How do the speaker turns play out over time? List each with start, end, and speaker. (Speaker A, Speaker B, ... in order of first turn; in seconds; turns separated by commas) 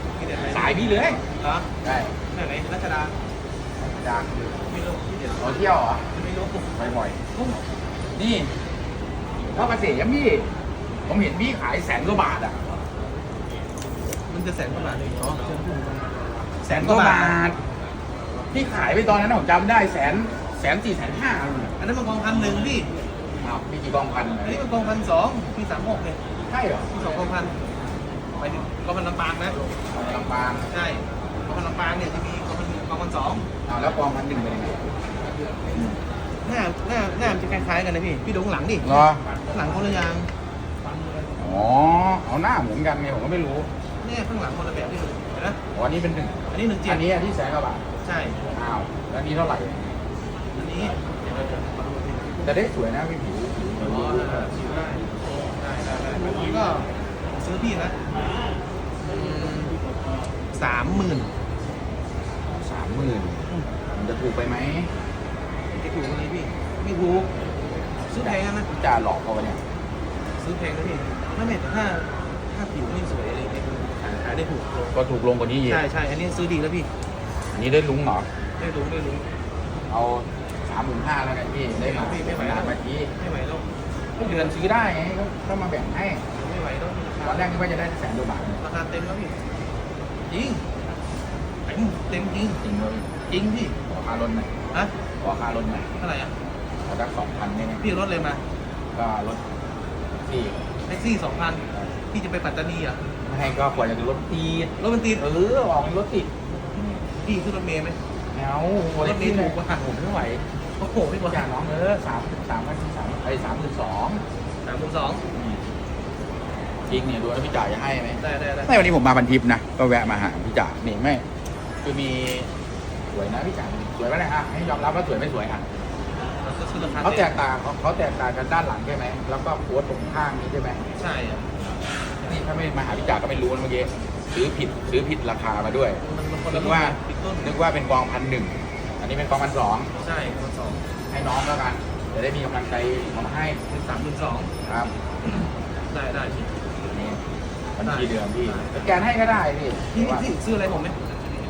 Speaker A: 0.2-1.7, Speaker B: 0.5-1.2, Speaker B: 1.8-2.1, Speaker A: 2.3-3.1, Speaker B: 3.8-4.7, Speaker A: 4.7-5.5, Speaker B: 5.4-6.0, Speaker A: 6.1-6.8, Speaker B: 6.8-7.2, Speaker A: 7.3-7.6, Speaker B: 8.1-8.5, Speaker B: 9.5-10.5, Speaker B: 11.1-12.6, Speaker A: 14.3-16.1, Speaker A: 16.6-17.4, Speaker B: 16.7-17.6, Speaker B: 18.5-21.7, Speaker A: 21.8-22.9, Speaker B: 23.4-24.6, Speaker A: 24.4-26.2, Speaker B: 26.5-26.9, Speaker A: 26.9-27.6, Speaker A: 28.4-29.6, Speaker B: 29.9-30.7, Speaker A: 30.7-33.5, Speaker B: 33.7-34.9, Speaker A: 36.4-40.3, Speaker B: 38.8-39.2, Speaker B: 41.4-43.7, Speaker A: 44.0-45.6, Speaker B: 45.7-47.9, Speaker A: 46.5-47.1, Speaker A: 48.0-48.4, Speaker B: 48.5-50.0, Speaker A: 50.5-52.4, Speaker B: 52.4-54.5, Speaker A: 53.8-58.0, Speaker A: 59.0-59.8, Speaker A: 60.5-61.3, Speaker B: 62.5-64.9, Speaker A: 65.7-67.3, Speaker A: 68.1-68.7, Speaker B: 68.2-69.6, Speaker A: 70.4-75.0, Speaker B: 74.9-75.8, Speaker A: 75.7-76.9, Speaker B: 77.5-78.3, Speaker A: 78.6-79.3, Speaker B: 79.9-83.1, Speaker A: 81.8-83.7, Speaker B: 84.2-86.2, Speaker A: 84.2-84.5, Speaker A: 86.3-87.6, Speaker B: 87.2-88.6, Speaker A: 88.6-89.4, Speaker A: 90.3-90.7, Speaker A: 91.7-92.6, Speaker B: 92.6-93.2, Speaker A: 93.3-93.8, Speaker B: 93.8-94.5, Speaker B: 95.2-95.9, Speaker A: 96.0-96.3, Speaker B: 96.9-97.9, Speaker A: 97.8-98.4, Speaker B: 99.0-99.4, Speaker B: 100.2-100.6, Speaker A: 100.9-103.0, Speaker B: 103.2-106.3, Speaker A: 104.8-105.2, Speaker A: 106.8-108.0, Speaker B: 108.3-110.4, Speaker A: 109.0-109.9, Speaker A: 110.8-111.5, Speaker B: 111.2-114.2, Speaker A: 114.6-115.2, Speaker B: 115.3-115.6, Speaker B: 116.9-121.2, Speaker A: 118.2-118.7, Speaker B: 121.8-122.5, Speaker B: 123.1-125.6, Speaker A: 126.4-127.4, Speaker B: 127.0-130.8, Speaker A: 131.0-131.5, Speaker B: 131.6-139.9, Speaker A: 136.0-137.5, Speaker A: 140.0-140.8, Speaker B: 141.1-143.6, Speaker A: 143.7-144.5, Speaker B: 144.7-144.9, Speaker A: 145.5-146.5, Speaker B: 146.9-147.2, Speaker B: 147.8-150.3, Speaker A: 147.8-148.9, Speaker A: 149.9-151.0